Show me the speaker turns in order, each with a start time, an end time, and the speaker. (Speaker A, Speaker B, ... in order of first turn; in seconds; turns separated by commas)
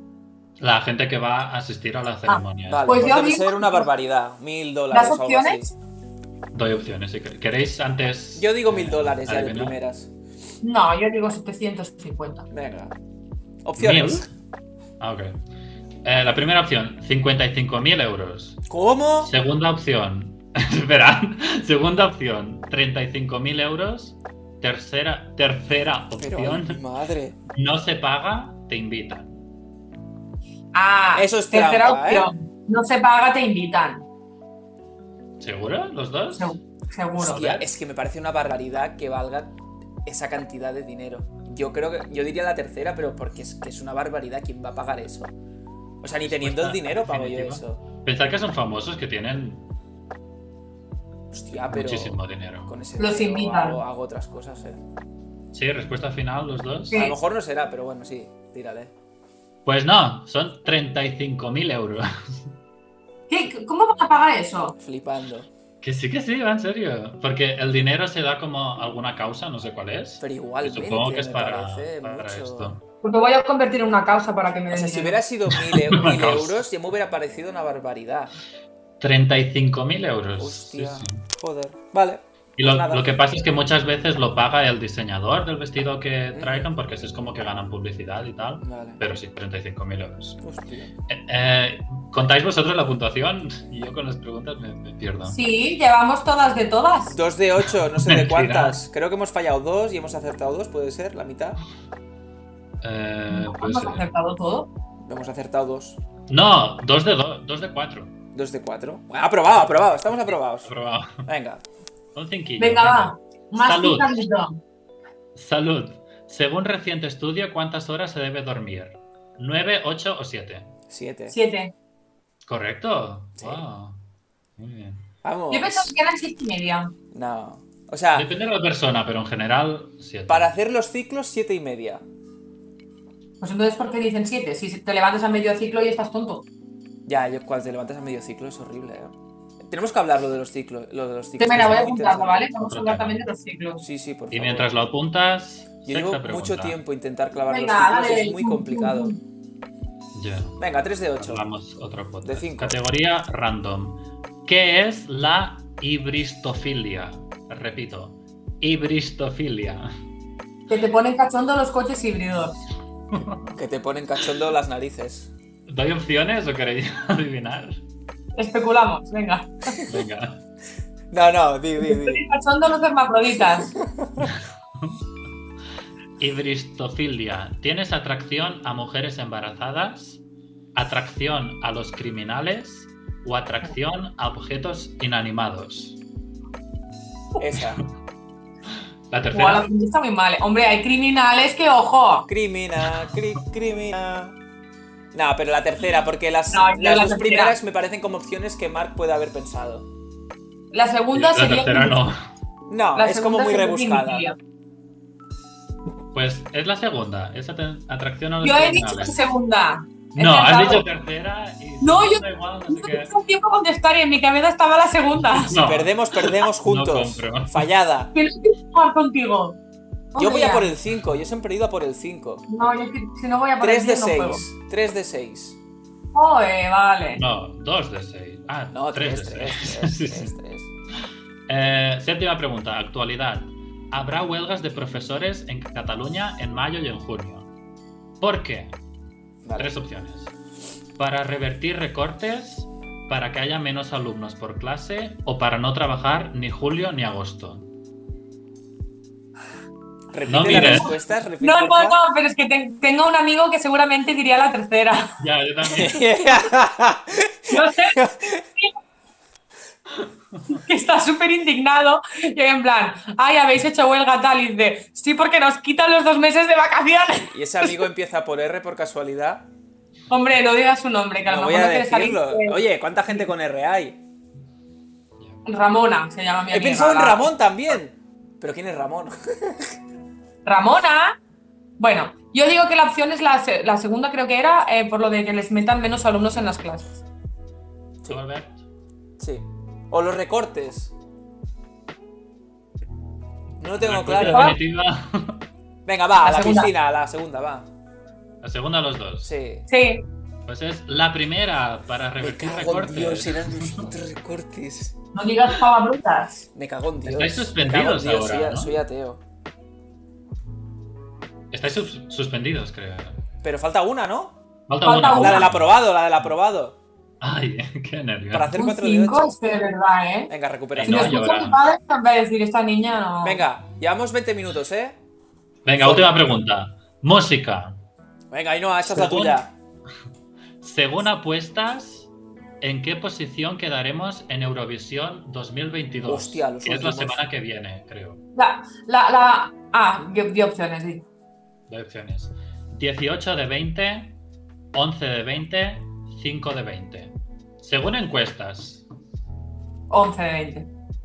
Speaker A: 0.6-2.9, Speaker B: 2.3-3.9, Speaker C: 2.7-5.7, Speaker B: 4.9-5.7, Speaker A: 6.5-9.8, Speaker C: 8.4-10.1, Speaker B: 10.6-12.5, Speaker C: 12.5-12.9, Speaker C: 13.6-14.3, Speaker A: 13.8-14.3, Speaker A: 15.0-15.4, Speaker A: 16.0-18.6, Speaker C: 18.7-19.3, Speaker A: 19.2-26.8, Speaker C: 26.2-27.4, Speaker A: 27.5-29.4, Speaker B: 30.7-34.0, Speaker C: 31.1-32.3, Speaker A: 35.4-36.6, Speaker B: 36.3-37.5, Speaker A: 37.2-37.7, Speaker C: 37.2-45.3, Speaker C: 46.0-47.8, Speaker A: 46.3-49.6, Speaker C: 51.3-54.8, Speaker A: 51.7-52.7, Speaker B: 53.0-53.8, Speaker A: 55.5-57.0, Speaker C: 56.9-58.9, Speaker A: 59.7-62.4, Speaker B: 63.3-64.8, Speaker C: 64.8-65.5, Speaker A: 65.8-72.8, Speaker C: 70.2-72.8, Speaker B: 73.0-75.2, Speaker C: 74.7-78.3, Speaker A: 75.5-76.6, Speaker A: 79.0-81.2, Speaker C: 80.4-83.1, Speaker A: 82.6-90.4, Speaker C: 86.3-86.7, Speaker C: 88.6-89.0, Speaker C: 90.4-90.9, Speaker A: 91.1-95.4, Speaker B: 95.3-97.2, Speaker C: 97.1-101.6, Speaker A: 97.7-98.8, Speaker A: 102.8-104.1, Speaker B: 103.3-104.7, Speaker C: 105.1-106.0, Speaker A: 106.3-108.1, Speaker C: 108.3-110.7, Speaker A: 109.7-111.2, Speaker C: 111.2-111.6, Speaker A: 112.2-114.2, Speaker B: 112.6-114.6, Speaker A: 115.3-120.7, Speaker C: 120.9-121.4, Speaker B: 121.3-121.7, Speaker A: 122.5-124.0, Speaker C: 123.4-123.6, Speaker A: 124.6-125.0, Speaker C: 125.2-125.9, Speaker B: 125.5-126.9, Speaker C: 127.1-128.3, Speaker A: 128.1-130.5, Speaker C: 130.3-132.1, Speaker B: 133.4-136.5, Speaker C: 137.1-142.5, Speaker B: 141.4-143.8, Speaker A: 142.6-143.2, Speaker C: 143.8-144.8, Speaker A: 144.3-146.8, Speaker C: 145.9-149.1, Speaker B: 147.5-149.2, Speaker A: 150.2-150.6, Speaker C: 150.6-151.4, Speaker A: 151.2-159.9, Speaker C: 152.2-152.8, Speaker B: 160.7-162.6, Speaker A: 163.1-163.5, Speaker C: 163.5-165.3, Speaker A: 165.7-167.8, Speaker B: 168.4-169.8, Speaker A: 169.8-170.4, Speaker C: 171.1-172.2, Speaker B: 171.8-173.7, Speaker C: 173.8-174.3, Speaker A: 174.2-175.0, Speaker A: 176.2-180.2, Speaker A: 180.8-186.0, Speaker C: 187.4-187.8, Speaker A: 189.1-189.7, Speaker B: 189.3-192.3, Speaker C: 192.3-194.4, Speaker C: 195.1-199.9, Speaker B: 196.5-197.6, Speaker B: 200.7-202.0, Speaker A: 201.1-202.2, Speaker C: 202.7-204.3, Speaker B: 203.0-204.4, Speaker A: 206.1-209.2, Speaker B: 208.4-210.9, Speaker A: 210.2-213.1, Speaker B: 211.8-215.5, Speaker A: 215.2-217.7, Speaker C: 215.6-218.1, Speaker B: 218.1-219.6, Speaker B: 220.1-220.7, Speaker C: 220.2-222.4, Speaker B: 222.5-224.4, Speaker C: 223.6-225.6, Speaker B: 226.2-227.2, Speaker A: 227.2-230.3, Speaker C: 228.7-230.7, Speaker A: 231.5-237.5, Speaker A: 238.2-238.7, Speaker C: 239.4-239.7, Speaker A: 239.6-240.3, Speaker A: 241.0-247.7, Speaker C: 250.1-252.0, Speaker A: 250.3-251.0, Speaker B: 250.5-255.2, Speaker A: 255.2-256.0, Speaker C: 255.7-258.3, Speaker B: 257.5-258.7, Speaker B: 260.5-267.8, Speaker C: 267.3-269.5, Speaker B: 270.1-273.2, Speaker C: 271.2-274.0, Speaker B: 275.5-277.3, Speaker C: 276.5-279.7, Speaker B: 280.4-281.2, Speaker B: 281.8-287.0, Speaker A: 288.1-288.6, Speaker C: 289.2-290.9, Speaker C: 293.6-294.6, Speaker A: 293.8-295.4, Speaker B: 294.3-294.6, Speaker C: 295.9-297.7, Speaker B: 296.2-296.7, Speaker A: 298.4-299.3, Speaker C: 299.2-299.7, Speaker B: 299.7-300.1, Speaker A: 300.5-303.9, Speaker C: 302.2-305.0, Speaker B: 305.1-306.5, Speaker C: 306.5-309.2, Speaker A: 307.1-308.8, Speaker A: 311.5-313.2, Speaker C: 313.4-314.4, Speaker A: 314.7-315.6, Speaker B: 314.8-315.5, Speaker C: 315.0-316.8, Speaker A: 317.2-318.5, Speaker C: 318.3-319.4, Speaker B: 318.5-320.3, Speaker C: 320.3-321.2, Speaker A: 320.7-321.6, Speaker B: 320.9-323.4, Speaker C: 323.2-325.0, Speaker A: 325.6-327.8, Speaker C: 325.8-326.2, Speaker C: 328.3-329.5, Speaker A: 328.9-329.4, Speaker A: 330.6-332.1, Speaker A: 332.6-338.2, Speaker C: 336.1-337.2, Speaker B: 338.4-341.0, Speaker A: 341.7-344.2, Speaker A: 344.7-348.9, Speaker B: 349.9-350.7